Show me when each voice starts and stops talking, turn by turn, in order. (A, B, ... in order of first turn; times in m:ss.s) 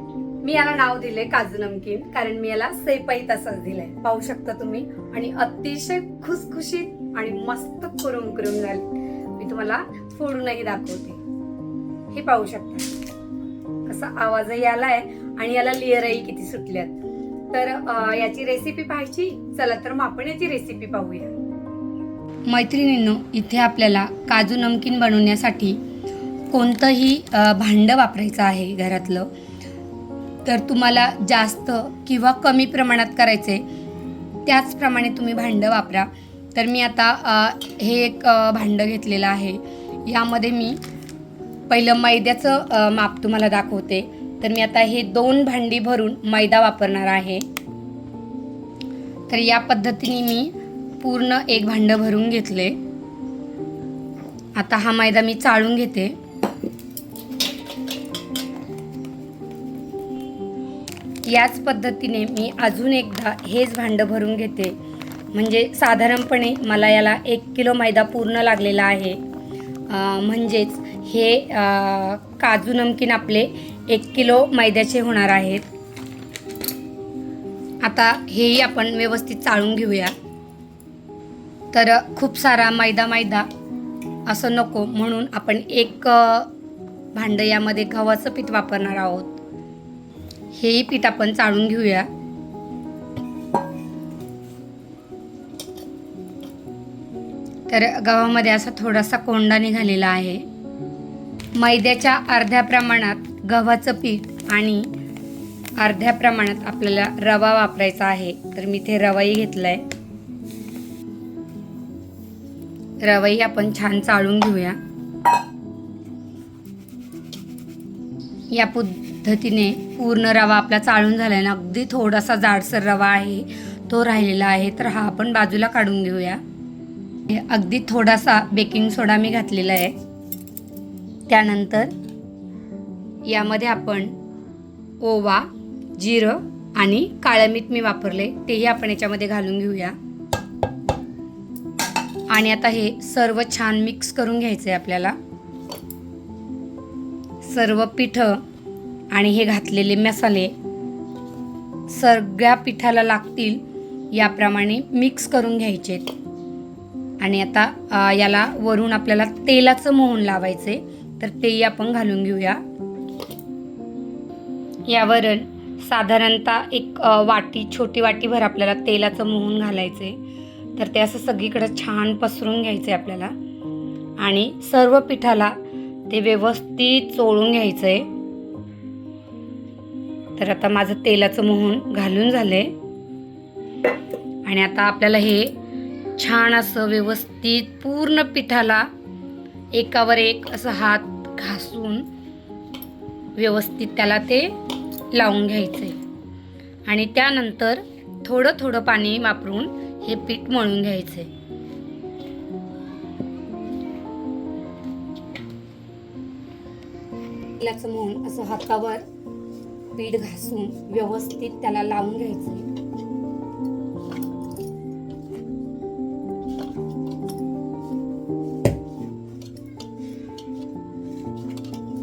0:00.4-0:11.2 A
0:12.1-0:12.9 A
0:13.8-0:17.0 A
0:17.5-0:21.3 A
0:22.5-0:25.8 A
0:26.5-0:29.3 A
0:30.4-0:33.6 A
0:34.4-0:40.8 A
0:41.7-0:47.4 A
0:49.3-0:52.8 A
0:54.5-0:56.2 A
1:01.2-1:04.8 A
1:05.3-1:09.2 A
1:09.9-1:15.7 A
1:17.8-1:20.1 A
1:21.7-1:23.5 A
1:24.2-1:26.5 A
1:27.1-1:29.4 A
1:30.5-1:32.1 A
1:37.7-1:40.4 A
1:41.6-1:44.9 A
1:45.8-1:49.8 A
1:53.0-1:54.8 A
1:58.5-2:06.4 A
2:07.3-2:10.0 A
2:11.3-2:11.9 A
2:13.2-2:14.2 A
2:15.0-2:20.0 A
2:22.3-2:25.2 A
2:27.4-2:28.4 A
2:29.1-2:30.5 A
2:31.9-2:36.1 A
2:37.2-2:42.6 A
2:44.9-2:50.2 A
2:50.8-2:53.3 A
2:54.2-2:55.6 A
2:56.1-2:58.1 A
3:00.4-3:02.7 A
3:04.4-3:05.5 A
3:06.2-3:08.9 A
3:09.7-3:12.1 A
3:13.3-3:14.5 A
3:15.1-3:16.0 A
3:16.8-3:21.3 A
3:27.6-3:29.0 A
3:29.9-3:32.7 A